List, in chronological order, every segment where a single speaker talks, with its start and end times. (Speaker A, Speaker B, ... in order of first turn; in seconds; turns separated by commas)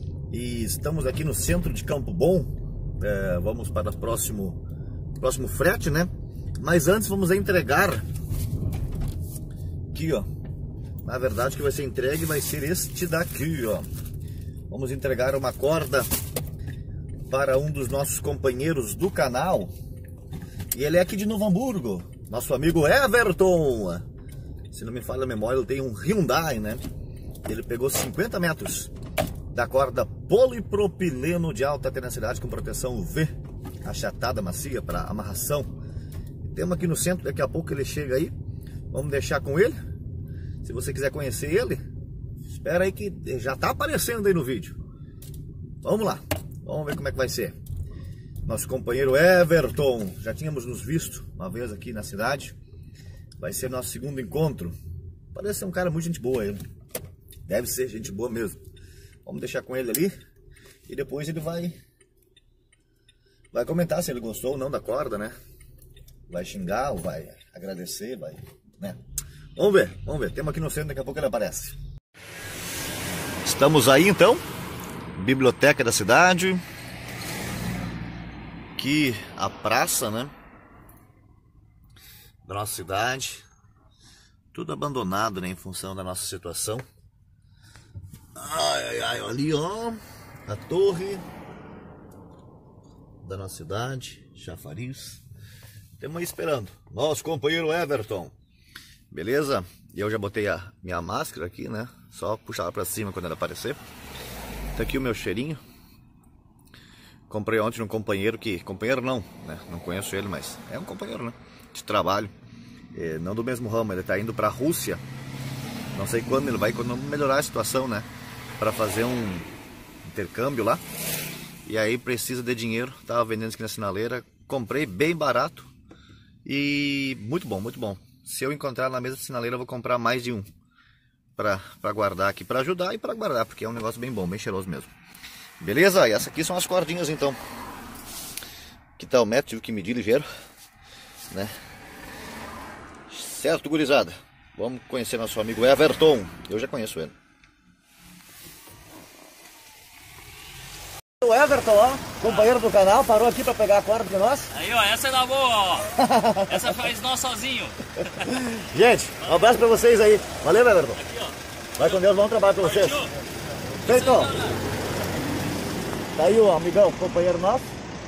Speaker A: 0.3-4.6, Speaker A: 5.2-8.1, Speaker A: 9.9-10.3, Speaker A: 11.0-13.9, Speaker A: 14.7-16.1, Speaker A: 17.3-19.7, Speaker A: 20.7-24.0, Speaker A: 24.7-26.8, Speaker A: 27.4-28.9, Speaker A: 29.5-33.3, Speaker A: 33.8-35.7, Speaker A: 36.4-38.3, Speaker A: 38.9-39.8, Speaker A: 40.6-41.8, Speaker A: 42.5-44.8, Speaker A: 45.8-47.6, Speaker A: 48.4-52.5, Speaker A: 53.4-54.8, Speaker A: 55.3-56.6, Speaker A: 57.5-58.6, Speaker A: 59.2-60.1, Speaker A: 60.9-61.8, Speaker A: 63.5-65.3, Speaker A: 66.3-69.0, Speaker A: 69.6-71.8, Speaker A: 73.4-74.4, Speaker A: 75.1-76.6, Speaker A: 78.8-80.3, Speaker A: 82.4-83.4, Speaker A: 84.5-86.8, Speaker A: 88.3-91.2, Speaker A: 93.2-95.2, Speaker A: 96.0-98.3, Speaker A: 99.1-103.8, Speaker A: 104.7-105.6, Speaker A: 107.3-112.3, Speaker A: 112.9-115.0, Speaker A: 115.9-118.1, Speaker A: 118.6-119.5, Speaker A: 120.0-120.8, Speaker A: 121.7-125.7, Speaker A: 126.5-130.5, Speaker A: 131.4-134.9, Speaker A: 135.6-137.4, Speaker A: 139.0-140.3, Speaker A: 141.3-141.5, Speaker A: 143.1-147.2, Speaker A: 151.2-154.6, Speaker B: 154.5-155.9, Speaker A: 155.9-156.8, Speaker B: 156.5-157.8, Speaker A: 158.0-161.0, Speaker A: 161.8-163.1, Speaker A: 163.8-164.4, Speaker B: 163.9-164.6, Speaker A: 166.2-167.7